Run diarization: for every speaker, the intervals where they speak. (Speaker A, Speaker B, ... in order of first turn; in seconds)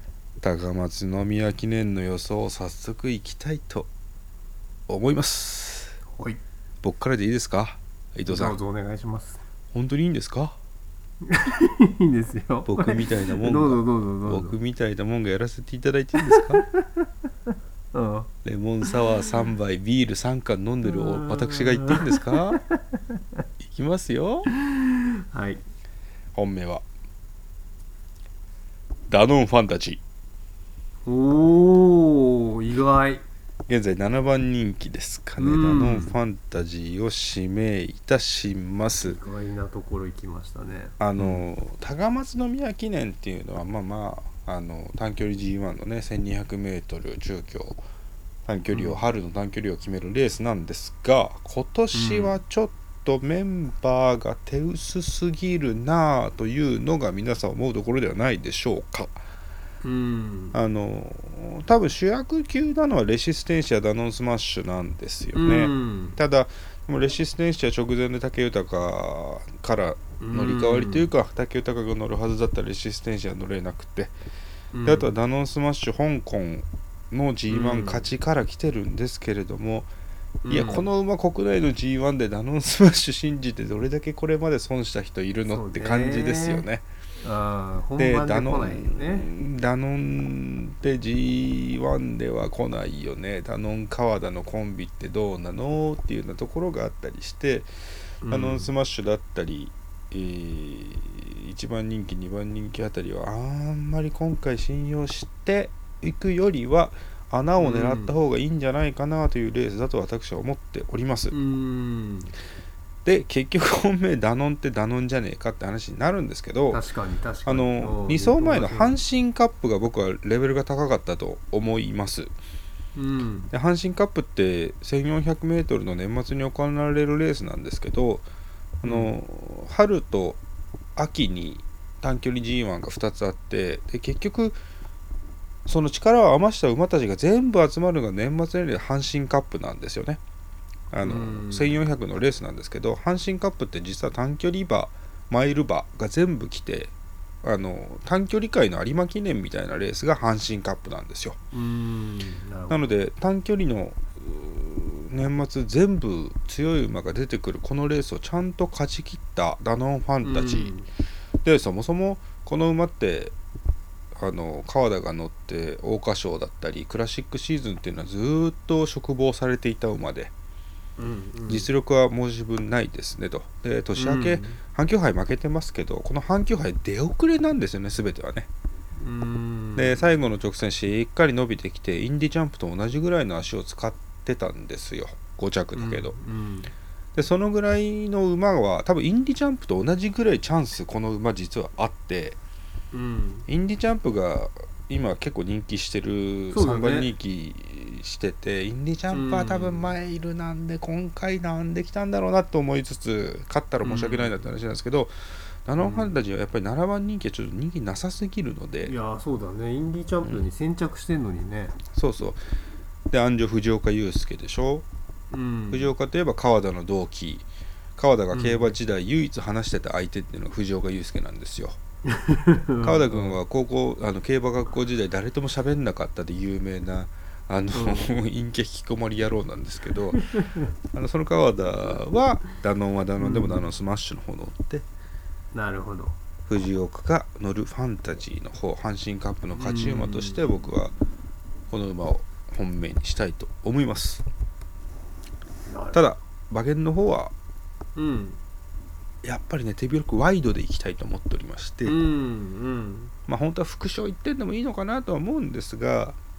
Speaker A: 0.4-3.9, 4.9-6.0, 6.8-8.6, 9.7-10.6, 12.7-16.6, 18.4-22.6, 23.6-24.5, 26.3-26.9, 29.1-30.0, 33.7-39.2, 41.0-47.8, 48.5-59.1, 60.5-74.1, 74.9-79.9, 80.5-86.8, 88.0-97.7, 98.3-111.3, 113.0-116.8, 117.5-122.3, 123.5-128.2, 128.8-130.4, 131.0-134.6, 135.7-140.2, 140.9-151.4, 152.7-160.7, 161.4-163.3, 164.1-170.3, 171.5-178.5, 179.8-186.2, 187.2-192.4, 193.5-205.1, 205.7-208.9, 211.9-212.4, 213.1-214.9, 215.7-221.8, 222.8-230.2, 230.9-234.9, 236.5-240.9, 241.7-244.2, 245.9-247.3, 249.2-252.0, 253.3-256.2
Speaker B: 8.3-9.4, 11.2-14.6, 16.2-17.1, 17.9-18.3, 20.9-23.2, 24.5-25.6, 31.1-33.2, 35.4-36.2, 38.9-41.5, 48.7-49.0, 51.9-52.3, 59.8-60.6, 65.4-66.2, 70.2-71.1, 74.7-75.1, 77.5-78.1, 80.5-80.9, 85.5-86.7, 87.2-89.3, 98.2-98.7, 107.6-108.2, 111.3-112.3, 116.7-119.0, 123.0-123.5, 128.8-129.2, 141.0-141.8, 151.5-152.9, 160.2-160.9, 171.0-171.7, 174.0-174.6, 179.0-180.2, 185.8-186.7, 192.9-193.5, 196.5-197.1, 199.1-199.9, 203.8-204.4, 205.8-206.2, 208.9-211.8, 215.3-215.9, 218.3-218.8, 222.1-223.4, 227.7-228.1, 230.2-230.7, 233.2-233.6, 235.5-236.2, 239.6-240.4, 245.7-246.1, 248.0-248.4, 251.9-253.1